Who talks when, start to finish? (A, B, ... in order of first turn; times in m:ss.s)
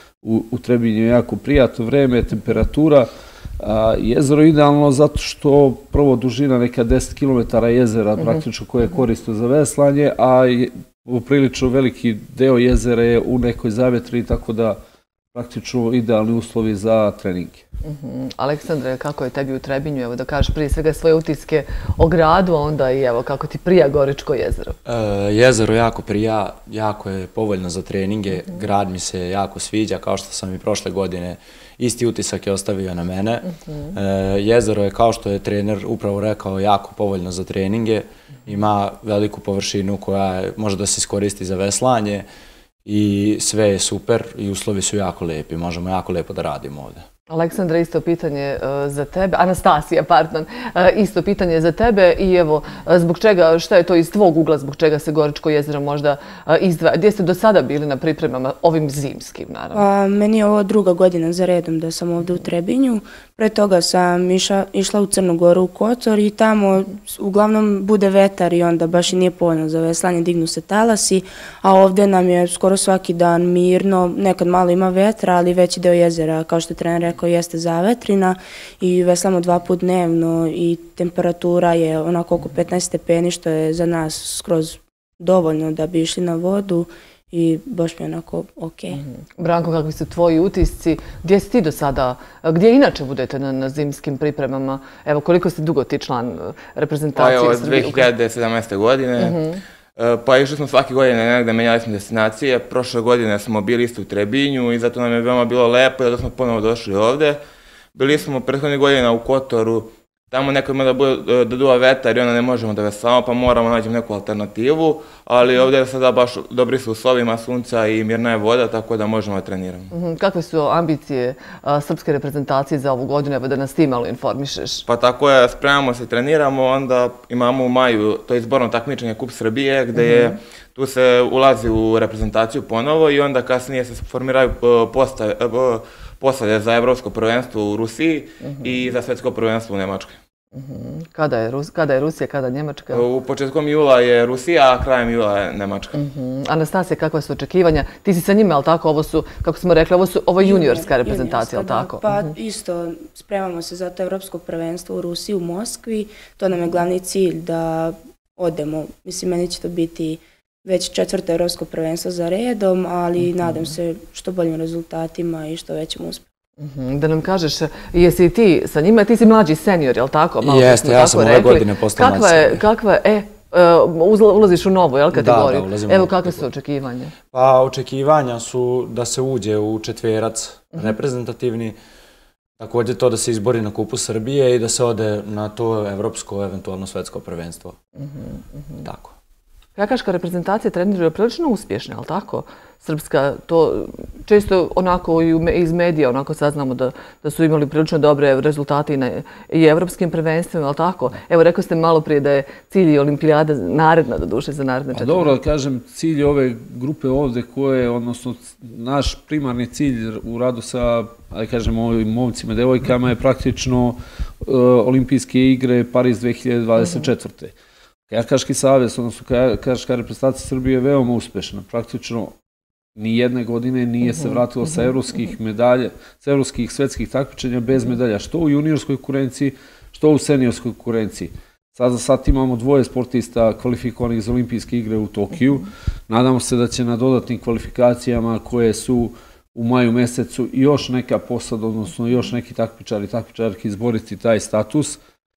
0:00.2-0:03.1 A
0:03.6-0:14.8 A
0:15.3-0:17.6 A
0:17.8-0:24.8 B
0:24.8-0:42.3 C
0:42.8-0:47.0 C
0:47.3-0:59.8 B
0:59.7-1:29.0 D
1:28.9-1:38.1 B
1:37.1-1:39.4 E
1:39.2-1:39.6 B
1:40.0-1:47.4 E
1:47.9-1:59.9 E
1:59.9-2:04.8 B
2:04.8-2:20.2 E
2:09.9-2:10.4 B
2:18.4-2:18.8 B
2:20.5-2:23.0 B
2:22.9-2:26.0 E
2:25.9-2:32.3 B
2:30.4-2:46.2 D
2:43.4-2:43.7 B
2:46.6-2:57.2 B
2:50.4-2:52.6 C
2:55.1-2:56.4 C
2:57.3-3:01.8 C
3:02.6-3:07.8 C
3:08.8-3:09.1 C
3:09.8-3:25.3 B
3:24.9-3:37.5 A
3:38.1-3:42.3 A
3:43.0-4:05.0 A